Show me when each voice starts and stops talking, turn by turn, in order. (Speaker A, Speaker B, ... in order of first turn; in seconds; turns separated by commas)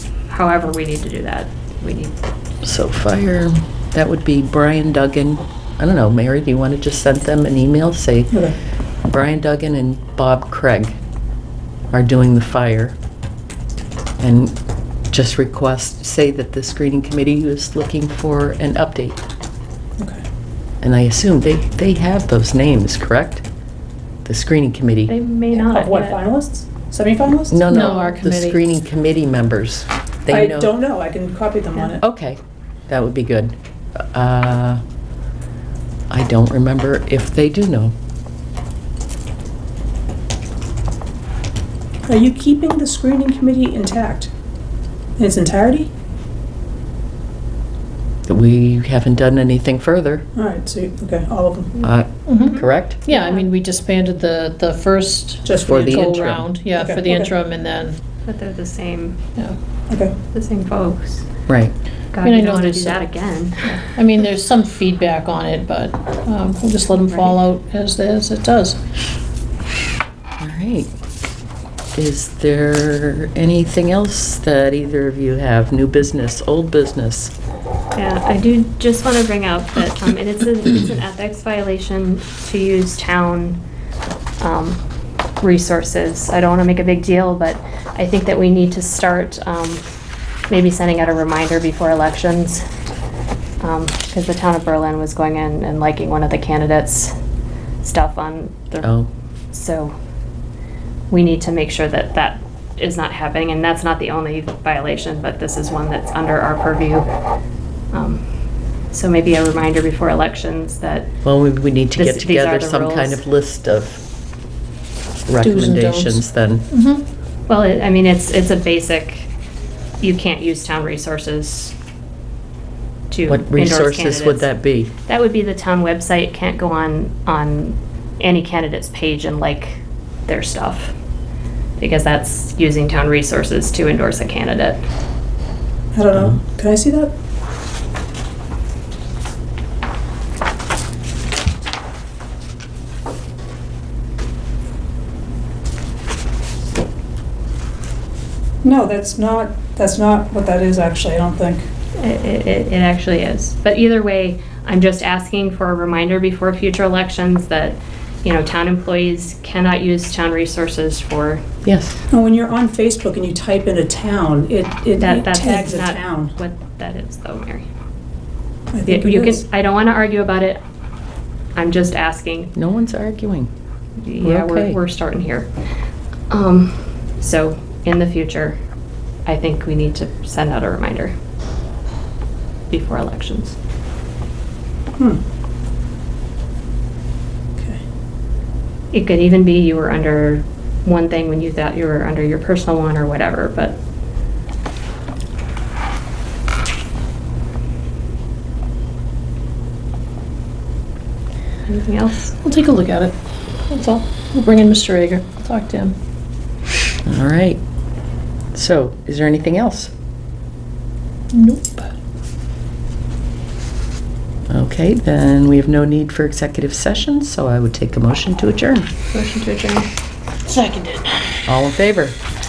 Speaker A: 0.3-2.1, Speaker B: 2.6-8.4, Speaker C: 8.3-8.6, Speaker B: 9.0-10.9, Speaker B: 11.9-13.0, Speaker B: 14.2-14.5, Speaker B: 15.1-19.2, Speaker B: 20.8-23.4, Speaker B: 24.2-25.1, Speaker A: 25.1-26.2, Speaker C: 25.5-27.6, Speaker B: 27.5-30.7, Speaker D: 27.7-28.6, Speaker C: 30.3-32.0, Speaker B: 32.0-33.5, Speaker B: 34.1-34.8, Speaker B: 36.1-37.9, Speaker C: 42.0-44.3, Speaker C: 45.2-45.9, Speaker B: 48.2-50.2, Speaker C: 50.3-51.7, Speaker A: 51.7-53.5, Speaker B: 51.8-53.0, Speaker D: 52.3-58.0, Speaker C: 55.4-57.3, Speaker B: 55.6-56.5, Speaker A: 58.2-59.2, Speaker C: 59.9-60.1, Speaker A: 60.3-61.2, Speaker B: 61.5-61.7, Speaker A: 62.1-63.8, Speaker D: 62.2-63.0, Speaker D: 63.7-68.8, Speaker A: 66.9-67.4, Speaker B: 70.4-70.9, Speaker B: 72.0-77.3, Speaker A: 77.9-83.6, Speaker A: 84.4-84.8, Speaker A: 85.4-89.8, Speaker A: 90.5-92.6, Speaker A: 93.6-97.1, Speaker A: 97.8-98.9, Speaker B: 98.8-99.1, Speaker A: 99.5-99.9, Speaker A: 101.1-107.0, Speaker A: 107.9-108.2, Speaker A: 108.9-111.1, Speaker B: 111.2-114.0, Speaker A: 112.0-113.2, Speaker B: 115.3-116.7, Speaker D: 115.4-117.0, Speaker A: 117.5-119.3, Speaker A: 120.0-121.7, Speaker A: 123.1-124.5, Speaker B: 123.3-124.9, Speaker A: 125.0-130.9, Speaker A: 131.8-134.8, Speaker C: 135.9-137.1, Speaker C: 148.6-151.7, Speaker A: 151.9-161.4, Speaker B: 161.6-162.0, Speaker C: 162.1-166.3, Speaker A: 165.0-167.7, Speaker C: 168.7-169.4, Speaker A: 168.8-170.6, Speaker A: 171.5-172.5, Speaker B: 172.5-173.5, Speaker A: 174.0-175.5, Speaker B: 174.2-174.8, Speaker A: 176.3-178.6, Speaker A: 179.2-181.1, Speaker A: 182.7-183.6, Speaker C: 187.6-187.8, Speaker A: 188.9-193.8, Speaker A: 201.7-202.3, Speaker D: 202.4-203.2, Speaker D: 203.7-205.9, Speaker B: 207.1-207.6, Speaker B: 208.5-209.9, Speaker D: 211.3-211.9, Speaker B: 214.5-218.9, Speaker A: 219.1-219.9, Speaker D: 220.4-221.4, Speaker B: 221.5-222.2